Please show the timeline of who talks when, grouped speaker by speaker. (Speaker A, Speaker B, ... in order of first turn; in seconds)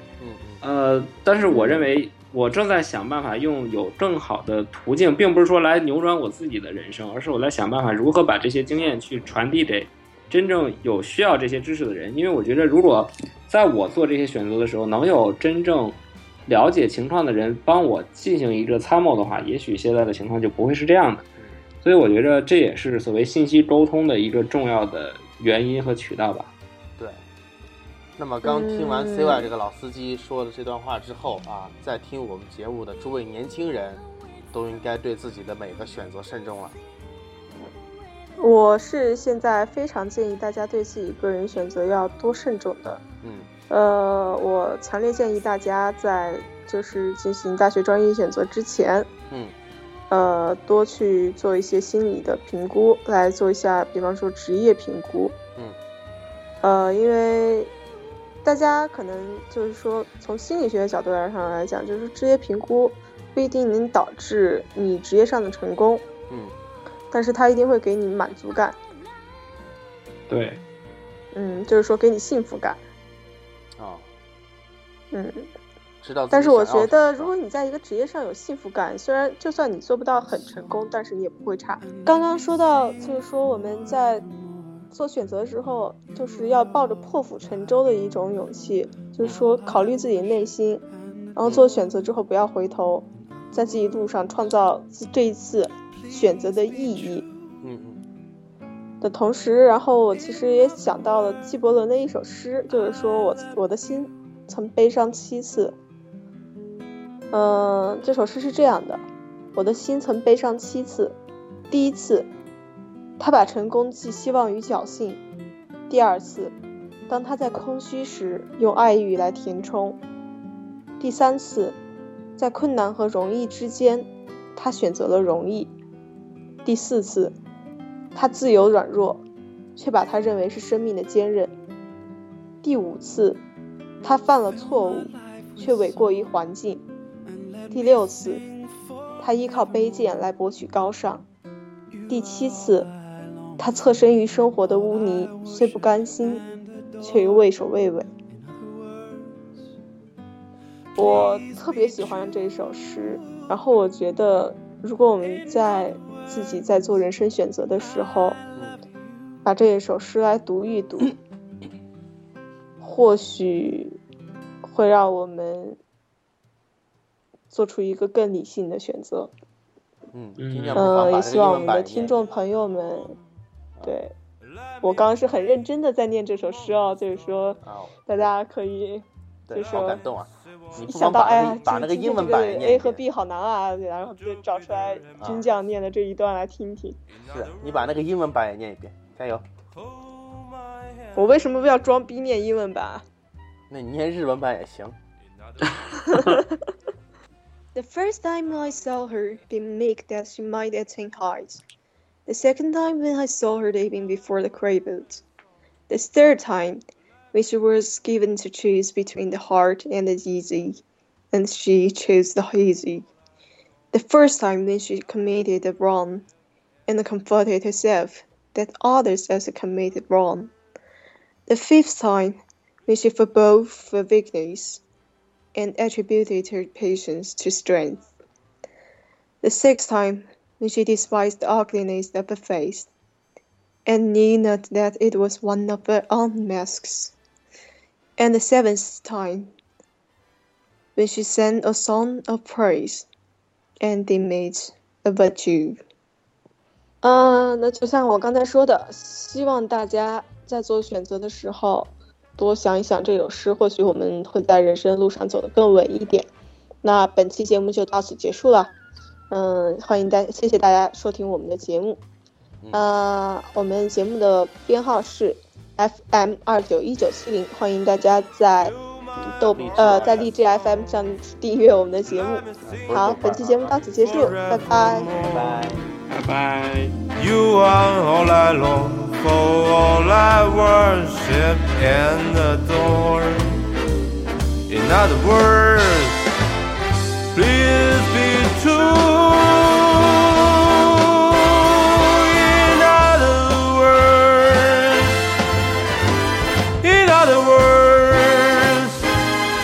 Speaker A: 0.2-0.6, 28.2-36.8, 43.2-43.5, 49.3-49.5, 66.3-66.5, 73.8-74.1, 76.0-77.3, 97.6-98.0, 151.0-151.2, 170.1-172.2, 177.6-178.3, 179.5-183.0, 185.2-185.4, 187.3-189.4, 193.7-195.0, 269.4-270.4, 272.6-273.8, 275.2-275.8
Speaker B: 0.6-21.2, 21.8-26.5, 70.3-70.6, 170.4-170.9, 276.1-277.0
Speaker C: 1.5-1.9, 28.4-29.5, 38.4-43.0, 43.7-49.1, 50.1-55.4, 56.6-57.7, 58.4-66.0, 67.1-68.8, 71.3-72.8, 75.1-75.5, 76.3-84.2, 84.9-90.8, 91.3-97.3, 99.0-105.8, 107.3-109.0, 109.5-111.2, 111.7-112.3, 113.2-115.2, 115.9-116.5, 117.1-120.0, 121.0-121.8, 122.4-125.7, 126.6-127.4, 128.2-129.2, 129.8-131.6, 132.6-133.4, 134.0-136.8, 137.7-138.4, 139.2-141.2, 142.1-142.9, 143.6-146.5, 147.0-148.1, 151.0-158.4, 159.4-161.2, 162.8-164.0, 164.6-165.8, 167.5-169.3, 170.8-173.2, 173.8-174.2, 174.8-180.0, 180.8-187.0, 191.1-193.1, 196.1-196.5, 197.8-201.6, 202.3-205.2, 205.9-206.8, 207.3-213.1, 213.9-216.3, 216.9-220.5, 221.5-224.8, 225.6-228.1, 229.4-232.9, 233.9-237.2, 238.2-239.5, 241.0-243.1, 243.8-245.8, 247.0-256.3, 256.8-258.7, 259.3-262.0, 262.7-275.1
Speaker D: 272.1-272.9, 274.0-275.8, 277.1-283.6, 284.7-286.3, 287.3-295.4, 296.8-299.3